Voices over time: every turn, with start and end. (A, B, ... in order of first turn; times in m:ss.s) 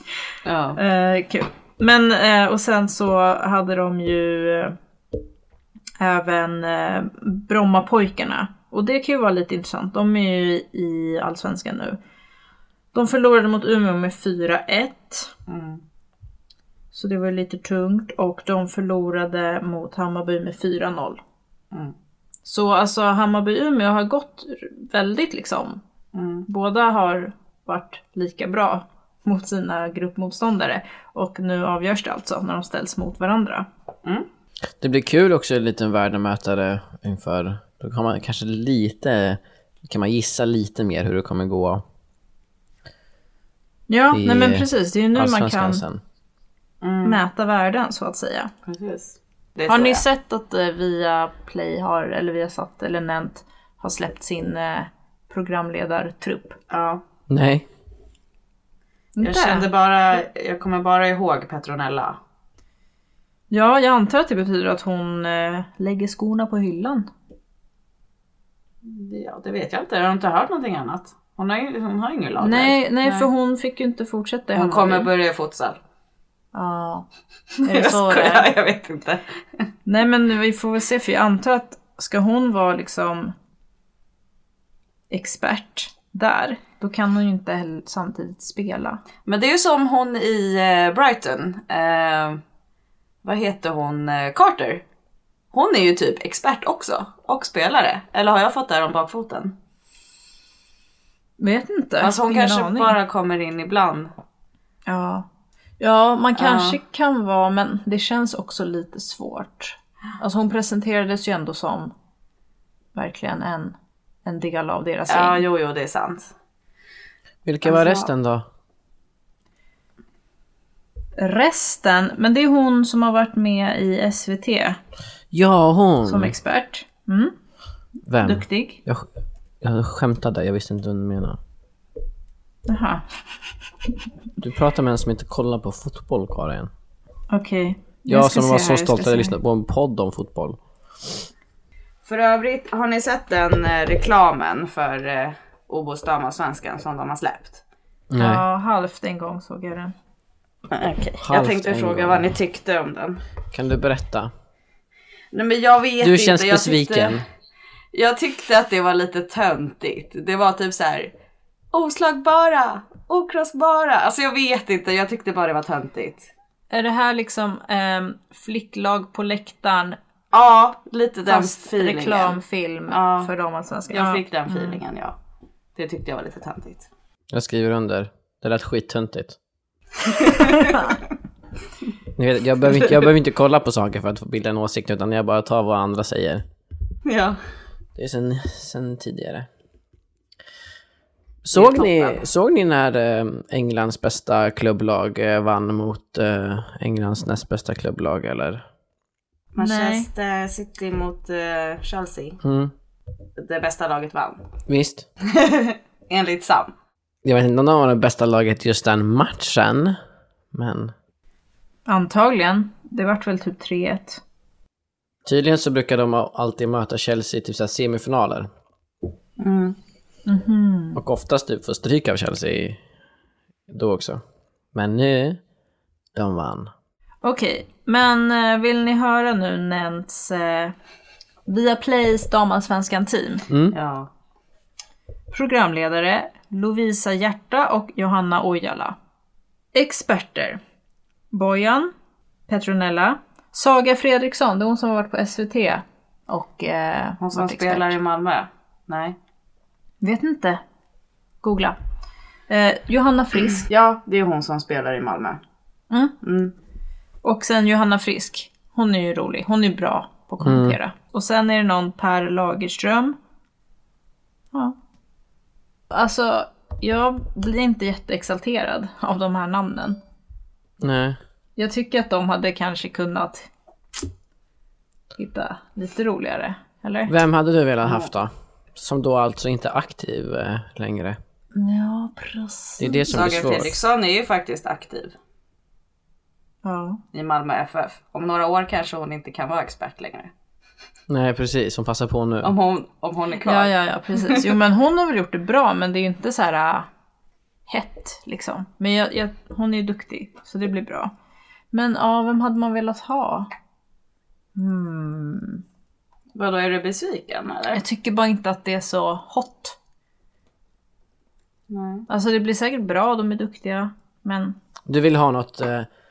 0:00.4-0:00.8 A
0:00.8-0:04.8 B
0:06.0-0:12.0 B
0:12.9-0:15.3 B
0:15.5-0:15.8 A
0:16.9-0:21.2 B
0:22.4-0:25.8 B
0:26.1-0:26.5 A
0:26.5-0:33.7 B
0:34.8-0:41.8 C
0:43.9-0:45.8 B
0:44.1-0:46.0 C
0:46.8-0:47.2 A
0:47.0-0:48.5 B
0:48.7-0:50.0 A
0:49.7-0:56.6 B
0:56.7-0:57.0 A
0:57.3-0:57.7 C
0:59.2-0:59.7 B
0:59.2-1:02.2 A
1:03.5-1:07.1 B
1:08.8-1:13.3 A
1:12.4-1:15.1 B
1:14.6-1:15.8 A
1:16.5-1:17.1 B
1:17.6-1:19.2 A
1:17.6-1:18.5 B
1:19.9-1:23.4 B
1:25.1-1:29.0 B
1:29.3-1:32.4 A
1:33.2-1:34.8 A
1:35.5-1:39.6 A
1:41.4-1:43.0 B
1:42.0-1:44.1 A
1:44.9-1:45.3 B
1:45.8-1:51.9 B
1:46.4-1:46.8 A
1:53.0-1:55.4 B
1:55.1-1:56.3 A
1:57.4-1:58.5 C
1:57.6-1:58.1 A
2:01.2-2:04.8 B
2:05.3-2:06.4 C
2:06.0-2:07.3 B
2:08.1-2:09.1 C
2:08.2-2:08.8 B
2:09.6-2:11.4 C
2:12.7-2:13.0 B
2:14.4-2:16.7 C
2:17.3-2:19.4 B
2:18.1-2:21.2 C
2:22.0-2:27.6 A
2:28.1-2:28.4 C
2:28.2-2:29.9 B
2:30.7-2:33.2 A
2:31.2-2:32.3 C
2:33.5-2:34.3 C
2:35.3-2:37.2 A
2:36.0-2:37.2 C
2:37.9-2:41.1 A
2:41.7-2:46.3 A
2:46.7-2:50.0 B
2:50.3-2:52.4 A
2:51.3-2:54.8 B
2:52.9-2:53.3 A
2:53.9-2:55.2 A
2:55.8-2:56.9 A
2:57.3-2:59.4 C
3:00.1-3:00.9 A
3:00.6-3:00.9 B
3:02.2-3:06.4 C
3:07.0-3:07.4 A
3:08.0-3:09.5 C
3:11.4-3:18.6 C
3:11.5-3:12.2 A
3:19.5-3:22.4 A
3:19.6-3:20.1 B
3:22.4-3:22.7 C
3:23.4-3:24.5 A
3:24.7-3:25.1 C
3:25.2-3:26.7 A
3:27.2-3:30.0 C
3:30.5-3:30.9 C
3:31.9-3:34.2 B
3:35.2-3:38.5 C
3:39.4-3:39.8 A
3:40.3-3:41.0 B
3:41.0-3:42.8 C
3:43.7-3:44.2 C
3:44.7-3:45.4 C
3:46.1-3:46.7 C
3:47.2-3:50.7 B
3:51.5-3:53.5 B
3:53.5-3:53.8 C
3:53.7-3:54.1 A
3:55.3-3:59.0 B
3:59.7-4:00.6 B
4:01.3-4:01.9 B
4:02.5-4:08.0 B
4:07.2-4:09.2 A
4:10.0-4:10.6 B
4:11.4-4:11.8 B
4:12.5-4:13.7 B
4:13.6-4:15.4 A
4:16.2-4:16.5 A
4:17.2-4:23.2 B
4:20.4-4:20.8 C
4:25.9-4:30.0 B
4:30.8-4:31.2 C
4:31.6-4:33.5 B
4:35.2-4:37.2 B
4:37.1-4:41.2 C
4:41.6-4:43.6 B
4:42.8-4:43.7 C
4:43.1-4:45.2 A
4:46.6-4:47.0 B
4:47.1-4:50.3 A
4:51.1-4:52.5 C
4:52.4-4:54.5 A
4:53.4-4:56.9 B
4:57.7-5:01.1 B
5:01.7-5:03.5 B
5:04.6-5:05.6 B
5:06.4-5:07.8 A
5:07.7-5:09.8 B
5:11.7-5:12.1 A
5:12.1-5:14.6 B
5:14.9-5:15.9 C